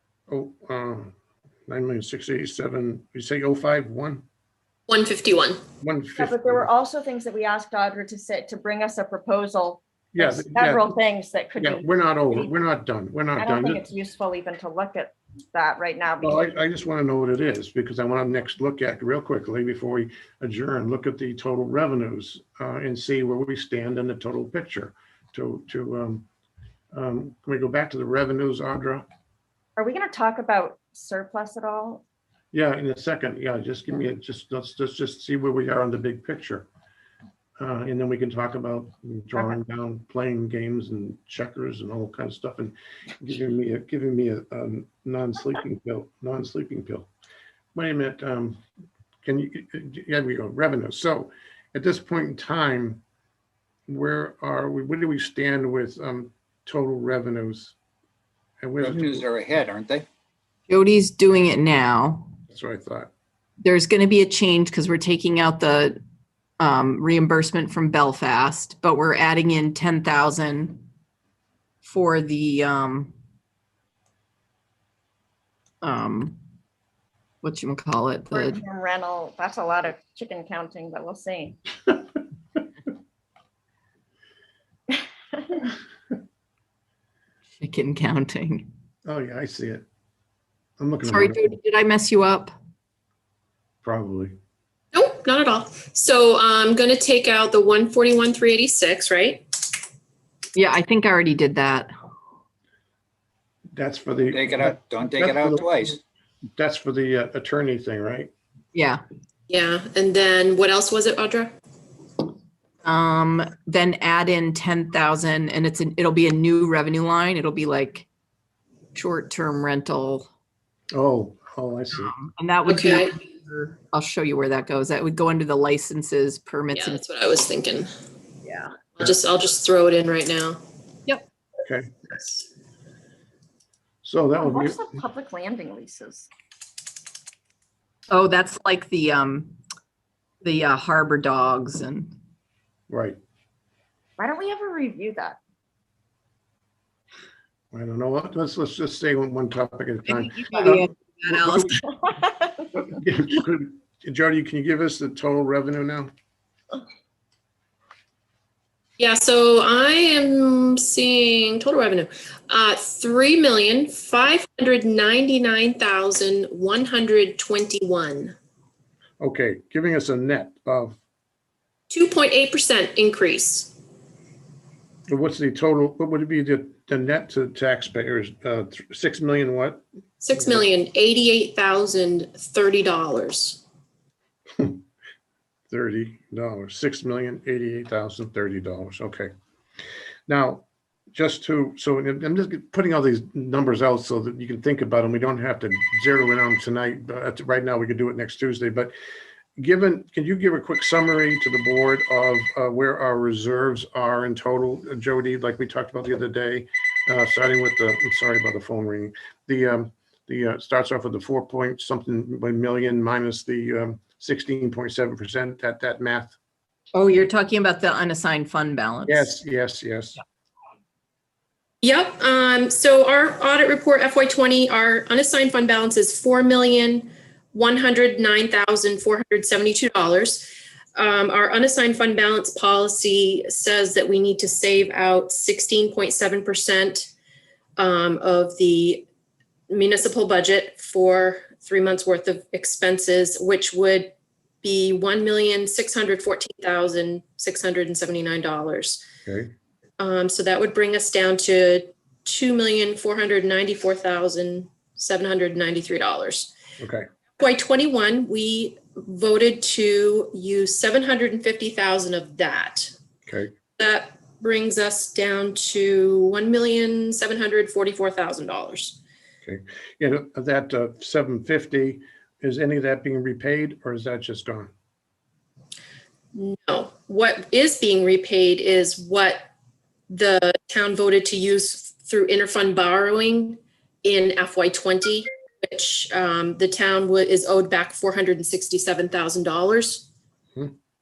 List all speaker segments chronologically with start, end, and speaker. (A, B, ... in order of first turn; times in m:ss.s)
0:00.3-0:01.1 A
0:01.7-0:04.2 A
0:04.9-0:05.6 B
0:05.8-0:06.7 A
0:06.2-0:12.5 C
0:10.1-0:11.0 A
0:11.6-0:13.8 A
0:13.4-0:16.5 C
0:16.2-0:26.3 A
0:26.9-0:29.1 A
0:29.8-0:32.0 C
0:32.5-0:36.7 A
0:37.6-0:47.1 A
0:47.8-0:48.6 A
0:49.2-0:53.0 A
0:53.9-0:57.8 A
0:58.6-0:59.3 A
0:58.8-1:00.1 D
1:00.7-1:02.3 E
1:02.5-1:03.1 A
1:03.6-1:06.0 E
1:06.6-1:10.8 E
1:11.8-1:13.2 E
1:15.8-1:16.4 E
1:17.4-1:18.6 E
1:18.3-1:21.6 C
1:27.6-1:28.7 E
1:29.0-1:29.8 A
1:30.8-1:31.6 A
1:31.0-1:32.6 E
1:33.8-1:34.4 A
1:34.9-1:39.5 B
1:40.6-1:41.9 E
1:43.8-1:46.0 A
1:44.3-1:46.0 D
1:46.6-1:48.3 A
1:48.7-1:49.0 E
1:49.5-1:51.5 B
1:52.8-1:58.1 E
1:58.9-2:00.3 E
2:00.9-2:02.1 A
2:01.9-2:07.0 E
2:02.7-2:03.1 B
2:06.8-2:07.9 B
2:08.4-2:08.8 E
2:09.0-2:10.6 B
2:11.6-2:11.9 A
2:14.0-2:14.8 A
2:14.4-2:16.3 C
2:18.1-2:19.6 E
2:20.4-2:22.2 E
2:22.9-2:23.2 A
2:24.2-2:25.4 C
2:27.7-2:31.8 A
2:30.1-2:31.8 E
2:32.8-2:36.1 A
2:39.0-2:48.3 B
2:49.2-2:51.0 A
2:51.9-2:53.7 B
2:55.1-2:59.8 A
3:00.2-3:03.6 B
3:00.4-3:00.6 A
3:04.6-3:04.8 A
3:05.7-3:09.3 A
3:10.3-3:18.9 A
3:19.6-3:36.4 A
3:36.9-3:39.3 E
3:39.1-3:40.2 A
3:41.8-3:57.1 B
3:57.8-3:59.1 B
3:59.7-4:09.1 B
4:09.2-4:09.5 A
4:10.0-4:16.5 B
4:16.8-4:17.1 A
4:17.4-4:23.0 B
4:23.3-4:23.5 A
4:23.8-4:29.0 B
4:29.4-4:34.7 A
4:36.4-4:39.5 B
4:40.1-4:50.1 B